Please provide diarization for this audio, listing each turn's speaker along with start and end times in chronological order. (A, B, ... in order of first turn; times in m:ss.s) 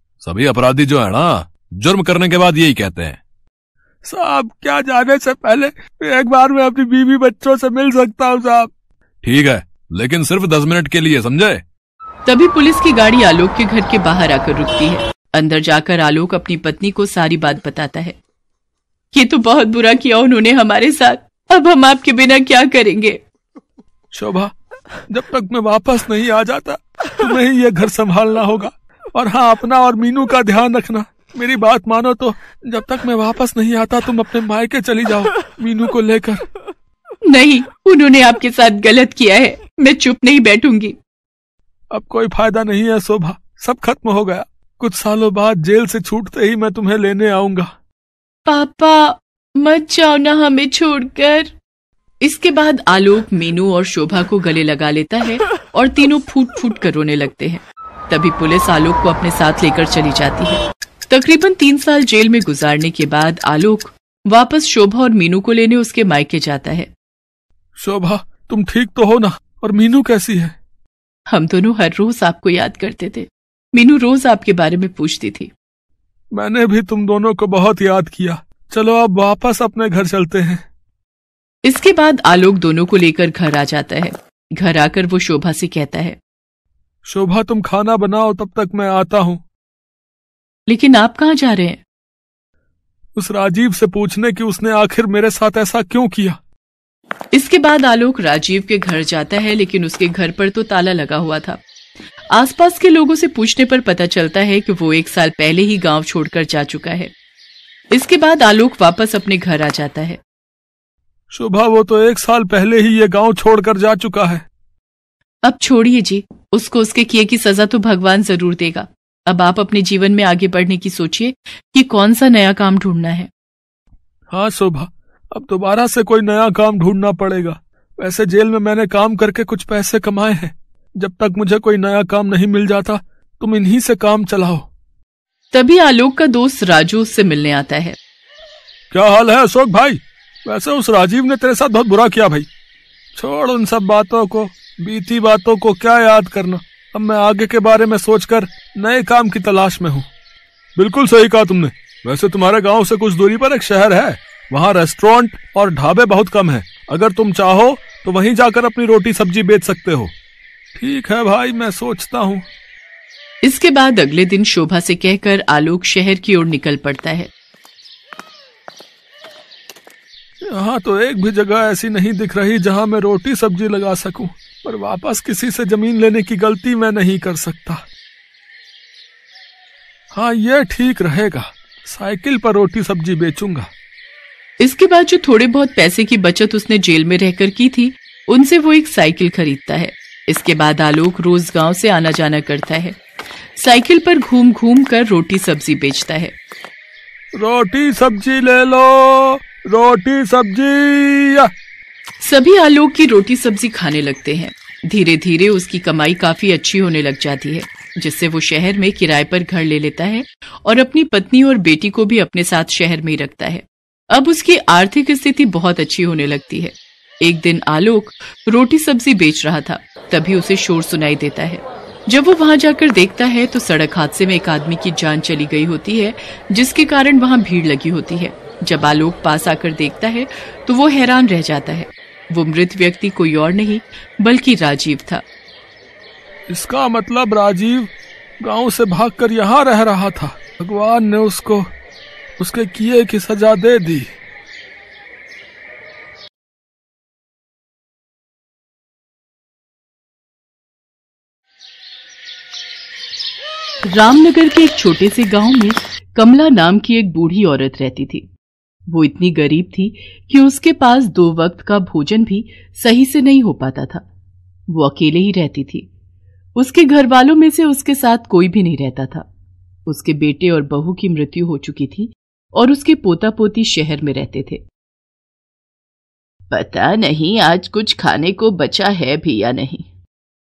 0:00.2-0:03.2 A
0:04.0-0:08.7 B
0:09.2-0:11.6 A
0:12.2-0:18.2 C
0:19.1-0:23.2 C
0:24.1-0:24.5 B
0:25.1-0:36.4 B
0:37.3-0:40.9 C
0:41.9-0:47.7 B
0:48.4-0:51.5 C
0:52.2-1:06.9 C
1:07.8-1:10.5 B
1:11.3-1:15.5 C
1:16.3-1:20.6 B
1:21.6-1:26.2 C
1:27.0-1:29.4 B
1:30.7-1:31.8 C
1:33.2-1:36.4 B
1:37.3-1:41.6 C
1:42.3-1:47.1 C
1:47.9-1:50.2 C
1:51.3-1:54.4 B
1:55.4-2:03.3 C
2:04.3-2:14.6 B
2:15.5-2:18.0 C
2:18.9-2:22.5 B
2:23.1-2:30.1 B
2:30.8-2:40.1 B
2:40.8-2:42.4 B
2:43.4-2:47.3 C
2:50.5-2:57.8 B
3:00.1-3:03.7 B
3:04.6-3:13.0 C
3:13.6-3:16.3 C
3:17.4-3:21.5 B
3:22.2-3:55.2 C
3:56.5-4:01.7 B
4:02.4-4:04.1 B
4:13.9-4:18.3 C
4:18.9-4:24.0 C
4:24.7-4:25.9 C
4:26.6-4:29.2 C
4:29.9-4:34.6 C
4:36.5-4:39.9 C